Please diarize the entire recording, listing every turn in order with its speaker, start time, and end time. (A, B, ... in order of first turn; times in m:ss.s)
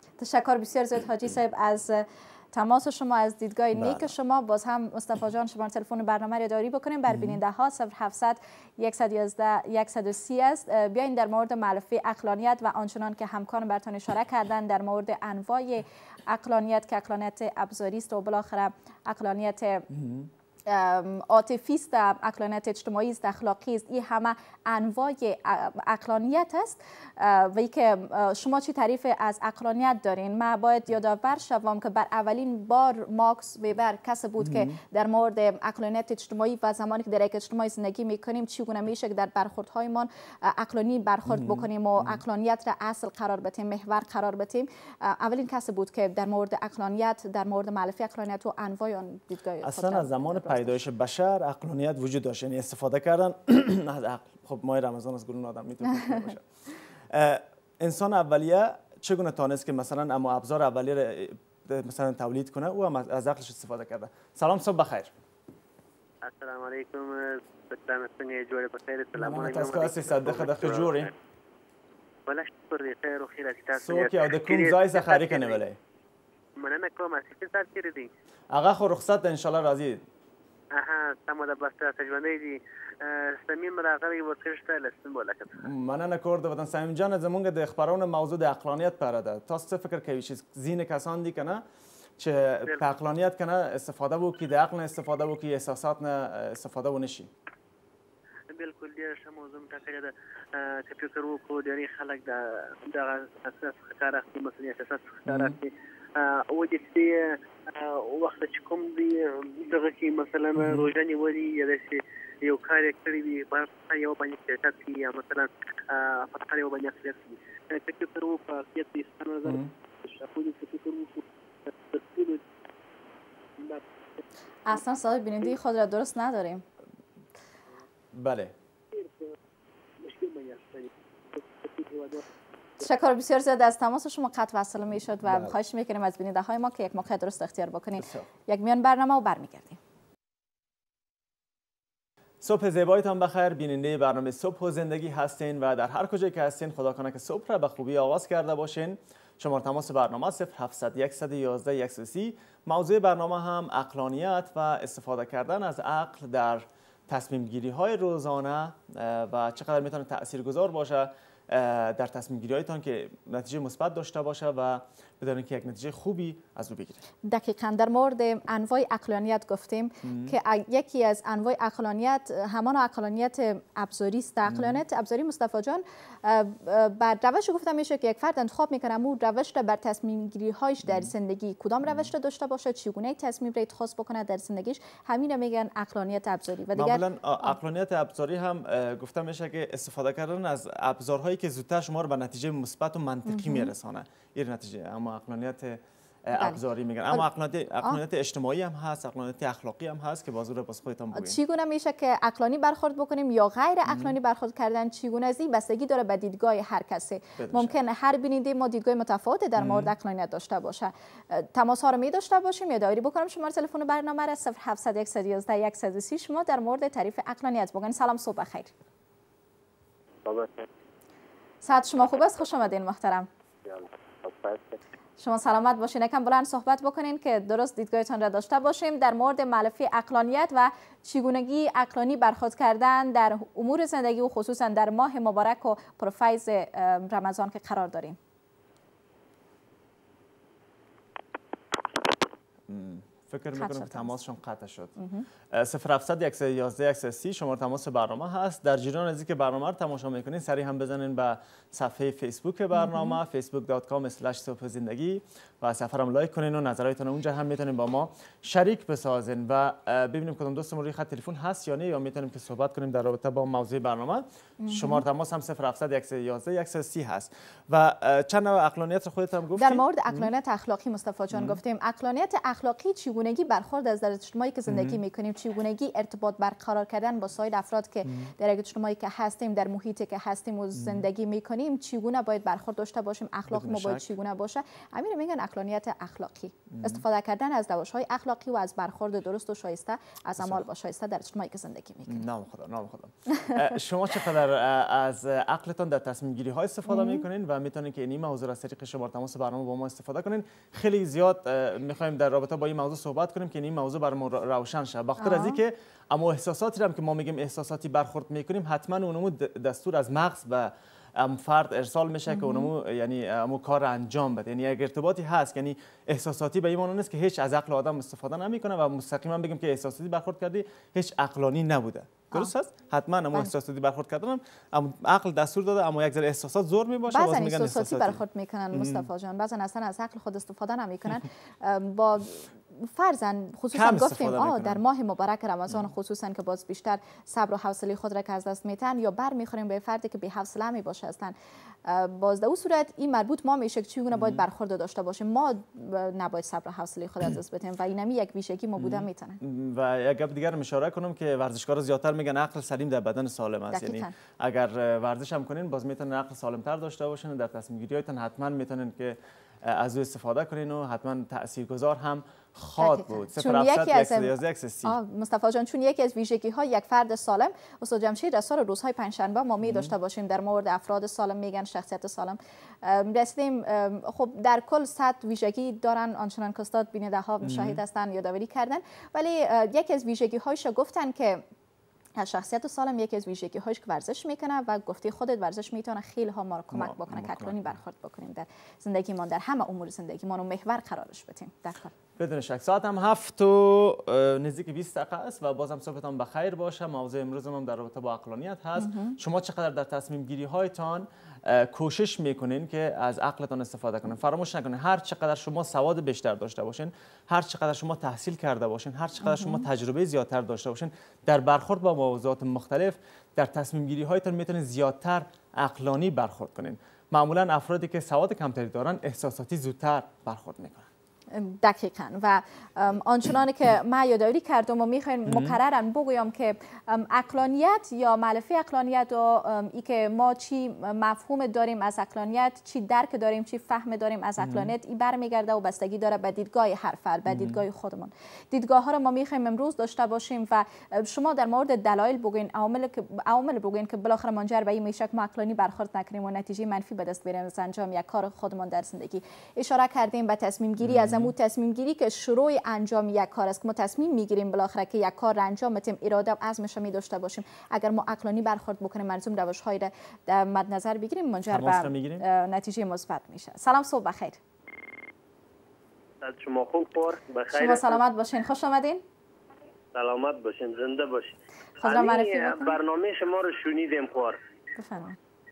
0:00.2-0:19.9 A
0:03.7-0:04.1 B
0:07.1-0:07.4 B
0:19.9-0:20.3 B
0:20.6-0:50.8 A
0:34.4-0:34.8 B
0:41.3-0:42.2 B
0:49.6-0:56.4 B
0:57.1-1:05.1 B
1:06.2-1:11.1 C
1:09.2-1:11.1 B
1:12.2-1:15.6 C
1:13.7-1:15.8 B
1:16.6-1:18.1 C
1:18.5-1:20.0 B
1:20.7-1:25.7 C
1:25.6-1:31.6 B
1:32.2-1:37.3 B
1:38.5-2:02.4 C
1:45.2-1:45.6 B
1:50.5-1:50.9 B
1:59.4-1:59.7 B
2:03.6-2:03.8 C
2:04.7-2:06.6 A
2:08.1-2:08.5 B
2:08.9-2:09.3 C
2:10.0-2:12.3 C
2:12.8-2:19.8 A
2:15.2-2:15.5 B
2:18.0-2:18.3 B
2:22.4-2:47.0 B
2:47.2-3:07.5 A
2:50.0-2:50.4 B
2:54.4-2:54.8 B
3:06.7-3:21.4 B
3:13.3-3:13.7 A
3:16.3-3:17.2 A
3:21.1-3:38.7 A
3:23.8-3:24.1 B
3:27.4-3:27.7 B
3:29.6-3:29.9 B
3:41.6-3:43.3 A
3:43.7-3:44.6 C
3:45.2-3:58.2 A
4:02.7-4:04.9 B
4:03.5-4:04.1 A
4:05.0-4:05.2 A
4:05.5-4:30.3 B
4:12.7-4:13.2 A
4:24.6-4:25.0 A
4:29.6-4:52.2 A
4:31.3-4:31.6 B
4:34.7-4:35.0 B
4:38.0-4:38.3 B
4:40.7-4:41.1 B
4:43.5-4:44.1 B
4:46.7-4:47.0 B
4:50.4-4:50.6 B
4:52.1-5:28.2 B
4:56.9-4:57.2 A
5:05.2-5:05.6 A
5:12.3-5:12.7 A
5:27.1-5:41.3 A
5:28.7-5:29.1 B
5:33.7-5:34.8 B
5:41.8-5:49.4 A
5:44.1-5:44.4 B
5:48.8-6:05.0 B
5:53.7-5:54.1 A
6:02.8-6:21.4 A
6:09.6-6:09.9 B
6:17.4-6:17.8 B
6:22.2-6:31.9 A
6:26.7-6:27.7 B
6:32.2-7:00.9 B
6:38.8-6:39.2 A
6:49.2-6:49.6 A
7:01.3-7:44.4 A
7:05.2-7:05.6 B
7:14.4-7:14.7 B
7:17.3-7:17.6 B
7:30.8-7:31.3 B
7:41.5-7:42.2 B
7:46.2-7:48.0 D
7:47.5-7:49.0 A
7:49.9-7:54.4 D
7:51.8-7:52.8 A
7:54.8-7:55.2 A